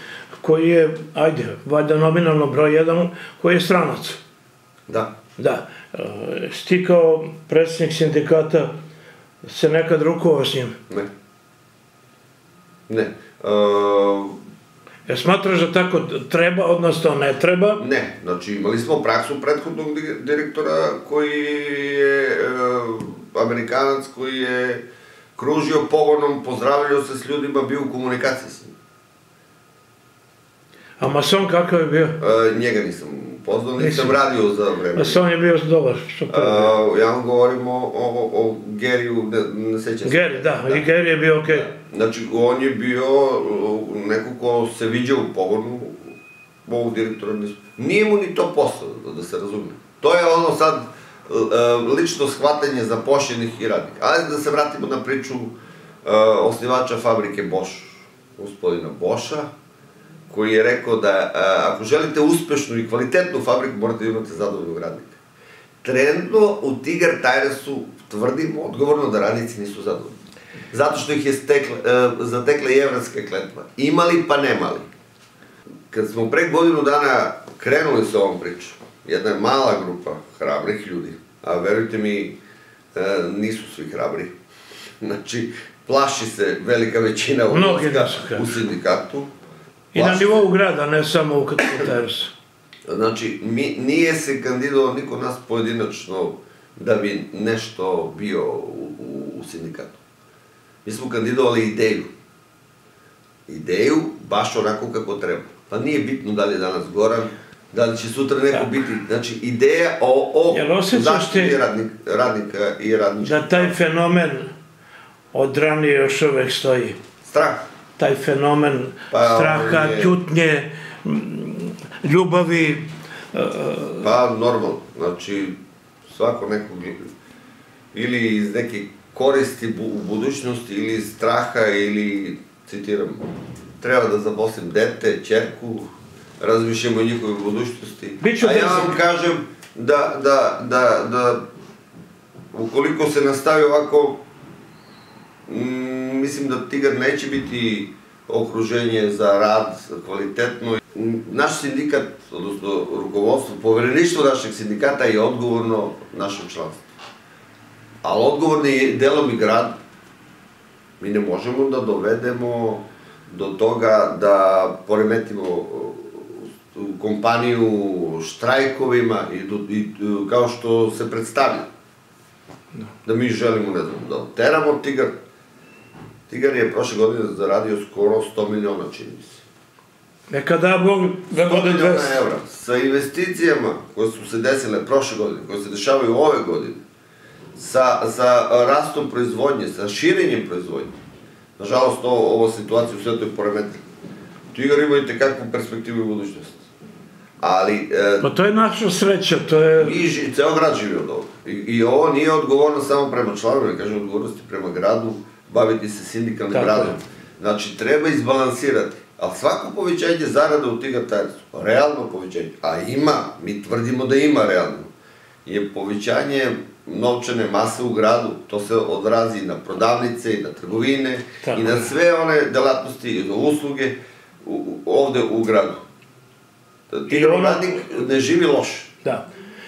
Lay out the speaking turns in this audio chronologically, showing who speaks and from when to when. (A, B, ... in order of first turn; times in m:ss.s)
0:00.4-0:04.2 A
0:04.9-0:05.1 B
0:05.4-0:08.7 A
0:09.4-0:10.8 A
0:12.9-0:14.4 B
0:15.1-0:17.8 A
0:17.8-0:24.8 B
0:25.4-0:28.7 B
0:31.0-0:32.2 A
0:32.2-0:35.2 B
0:33.8-0:34.2 A
0:35.0-0:36.7 A
0:36.3-0:40.8 B
0:40.0-0:41.7 A
0:41.5-0:55.5 B
0:56.0-0:59.5 B
1:00.3-1:05.1 B
1:05.8-1:10.1 B
1:10.7-1:14.9 B
1:15.9-1:22.4 B
1:22.9-1:24.3 B
1:25.0-1:29.3 B
1:27.5-1:28.5 A
1:29.9-1:32.3 A
1:30.0-1:30.4 B
1:32.9-1:40.0 B
1:40.8-1:42.1 B
1:43.5-1:53.8 B
1:50.5-1:51.6 A
1:53.2-1:54.5 A
1:55.3-1:57.0 A
1:57.2-1:57.7 B
1:58.0-2:04.1 A
1:59.1-2:00.1 B
2:04.0-2:05.6 B
2:06.1-2:07.0 B
2:07.9-2:13.2 B
2:13.8-2:15.9 B
2:16.4-2:21.4 B
2:18.2-2:19.0 A
2:22.5-2:24.2 B
2:25.5-2:36.8 B
2:38.0-2:39.7 B
2:41.0-2:51.6 B
2:53.0-2:55.1 B
2:56.3-2:59.4 B
3:00.3-3:02.2 A
3:01.4-3:06.8 B
3:07.6-3:10.9 B
3:11.6-3:13.8 B
3:14.5-3:16.6 B
3:17.4-3:18.3 B
3:18.2-3:20.0 A
3:19.8-3:34.9 B
3:26.5-3:27.0 A
3:35.4-3:45.8 B
3:41.4-3:41.9 A
3:46.9-3:48.9 B
3:47.1-3:47.8 A